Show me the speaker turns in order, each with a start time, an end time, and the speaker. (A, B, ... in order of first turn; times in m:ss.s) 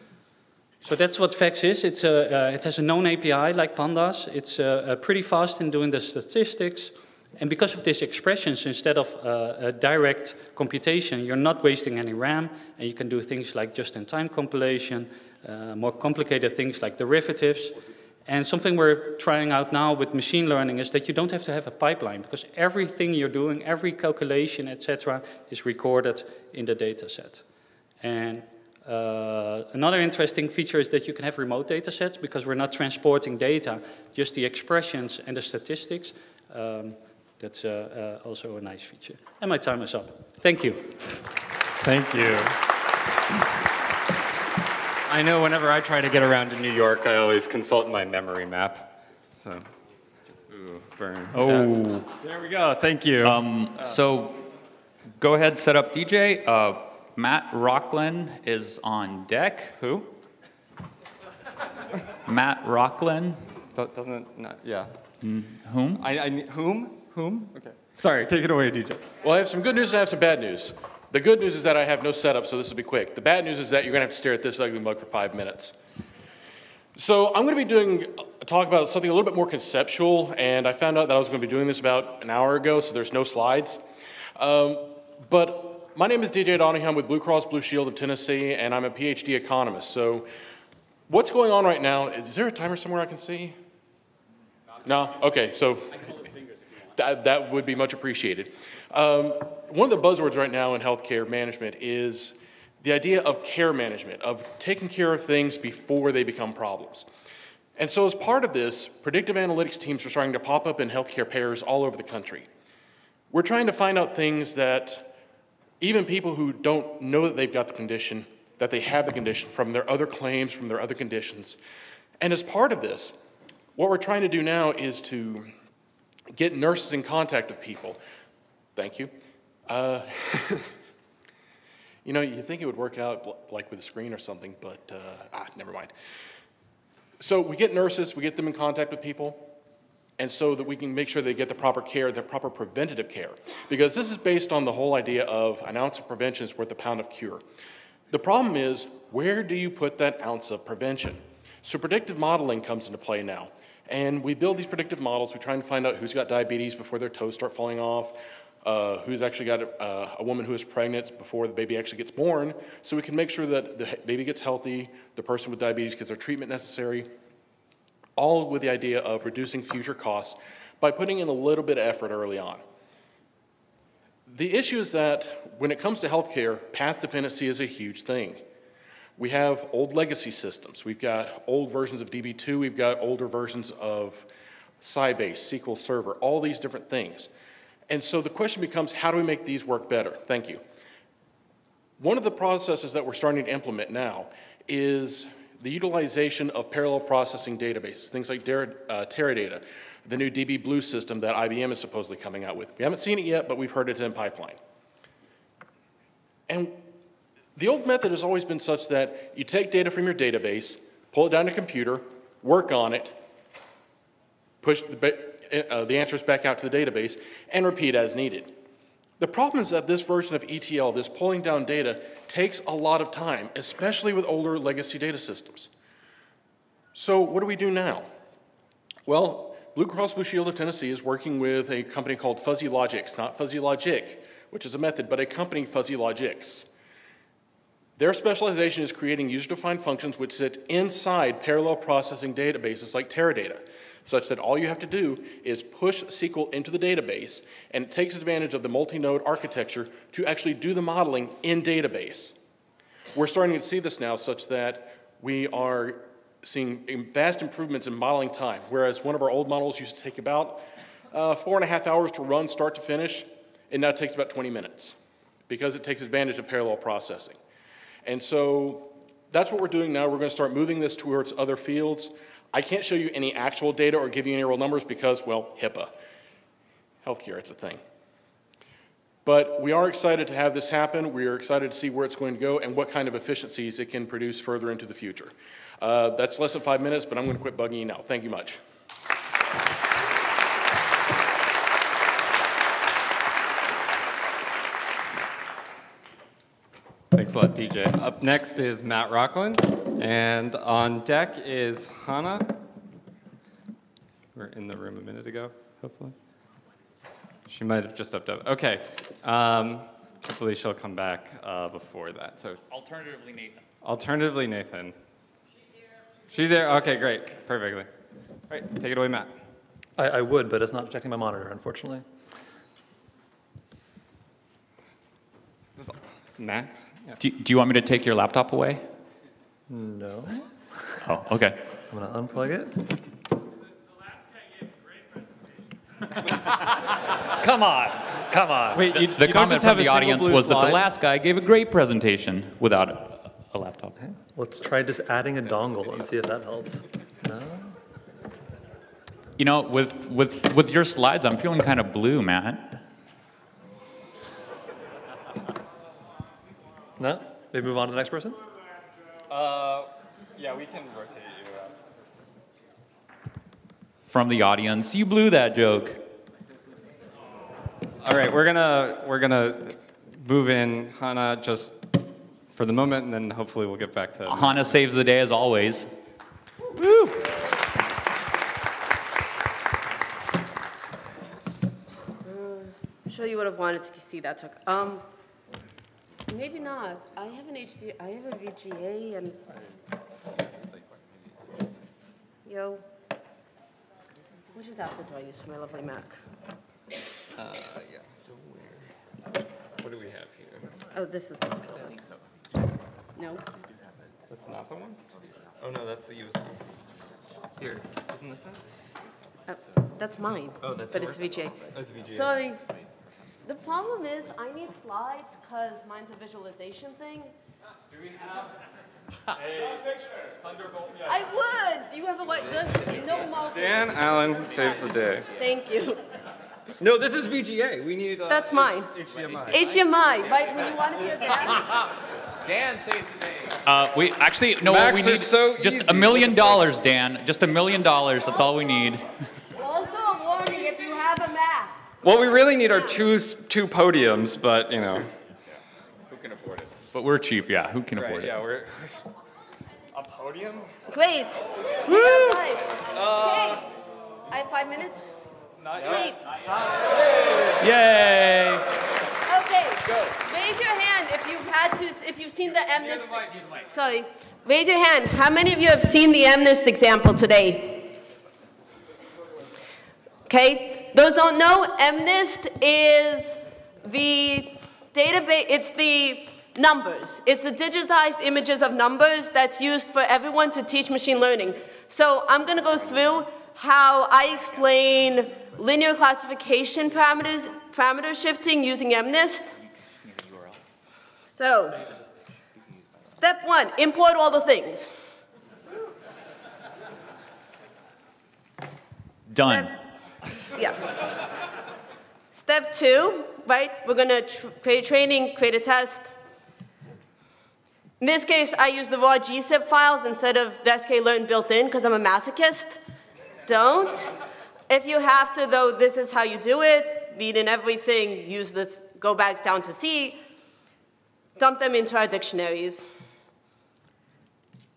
0:00.8-0:27.4 A
0:28.0-0:41.2 A
0:41.8-0:42.6 B
0:45.1-0:49.6 B
0:50.5-0:54.0 B
0:51.3-0:52.1 C
0:53.2-0:54.5 C
0:55.2-0:59.8 C
0:59.8-1:00.1 B
1:02.2-1:03.4 C
1:03.7-1:05.0 B
1:05.2-1:06.0 C
1:05.9-1:09.1 B
1:09.2-1:15.8 D
1:17.0-1:23.8 D
1:24.4-1:30.3 D
1:31.1-1:33.6 D
1:34.8-1:36.2 D
1:37.0-1:47.1 D
1:47.8-1:52.5 D
1:53.3-1:55.1 D
1:55.8-2:01.6 D
2:02.2-2:05.5 D
2:06.3-2:08.0 D
2:08.8-2:09.1 D
2:09.7-2:10.7 D
2:12.0-2:15.9 D
2:17.2-2:19.5 D
2:20.2-2:27.4 D
2:28.1-2:47.1 D
2:48.2-2:52.6 D
2:54.3-2:58.4 D
2:59.2-3:04.3 D
3:04.8-3:07.3 D
3:07.9-3:10.6 D
3:12.0-3:24.6 D
3:26.5-3:26.8 D
3:27.6-3:33.2 D
3:34.6-3:38.5 D
3:39.2-3:45.7 D
3:46.9-3:48.1 D
3:49.1-3:56.7 D
3:58.0-4:12.4 D
4:13.1-4:27.4 D
4:28.0-4:35.9 D
4:37.0-4:37.8 D
4:39.2-4:48.6 D
4:57.1-5:02.6 B
5:04.3-5:06.2 B
5:07.5-5:12.6 B
5:12.7-5:13.6 C
5:13.8-5:15.0 B
5:16.3-5:17.9 B
5:18.5-5:19.4 B
5:20.0-5:22.0 E
5:25.8-5:27.2 B
5:27.2-5:28.8 C
5:29.7-5:31.0 E
5:31.0-5:31.7 C
5:31.9-5:33.0 E
5:37.4-5:38.9 E
5:38.7-5:40.9 B
5:39.0-5:44.0 C
5:44.0-5:47.8 E
5:49.4-5:52.8 C
5:57.0-5:58.4 E
5:59.3-6:01.8 B
6:04.1-6:06.1 C
6:08.0-6:14.6 B
6:14.3-6:15.9 C
6:22.2-6:25.0 F
6:26.3-6:29.4 F
6:32.4-6:32.8 F
6:34.5-6:36.2 F
6:37.4-6:38.9 B
6:39.8-6:40.8 B
6:40.9-6:41.9 F
6:43.2-6:43.4 F
6:44.3-6:45.0 B
6:45.6-6:46.7 B
6:47.6-6:48.6 B
6:49.5-6:52.6 F
6:50.6-6:52.4 B
6:53.4-6:57.3 F
7:01.0-7:04.1 F
7:03.5-7:05.3 B
7:05.4-7:06.0 F
7:06.8-7:09.6 B
7:08.3-7:08.9 F
7:09.5-7:11.7 F
7:12.5-7:13.2 B
7:13.7-7:19.0 C
7:14.6-7:16.8 B
7:19.6-7:21.8 F
7:22.0-7:25.1 B
7:26.1-7:26.8 B
7:26.9-7:28.5 C
7:27.9-7:29.1 B
7:29.9-7:30.8 B
7:30.9-7:33.7 F
7:31.9-7:32.4 B
7:32.9-7:33.6 B
7:34.3-7:35.1 F
7:35.6-7:36.1 B
7:35.8-7:36.2 F
7:37.4-7:38.6 B
7:37.6-7:38.4 C
7:39.3-7:47.9 F
7:50.3-8:09.6 F
8:11.3-8:11.8 F
8:13.1-8:14.9 F
8:19.3-8:19.8 C
8:19.4-8:19.7 F
8:20.5-8:20.9 F
8:22.3-8:26.1 F
8:28.0-8:32.8 F
8:33.5-8:34.1 F
8:34.7-8:40.2 F
8:41.4-8:42.9 F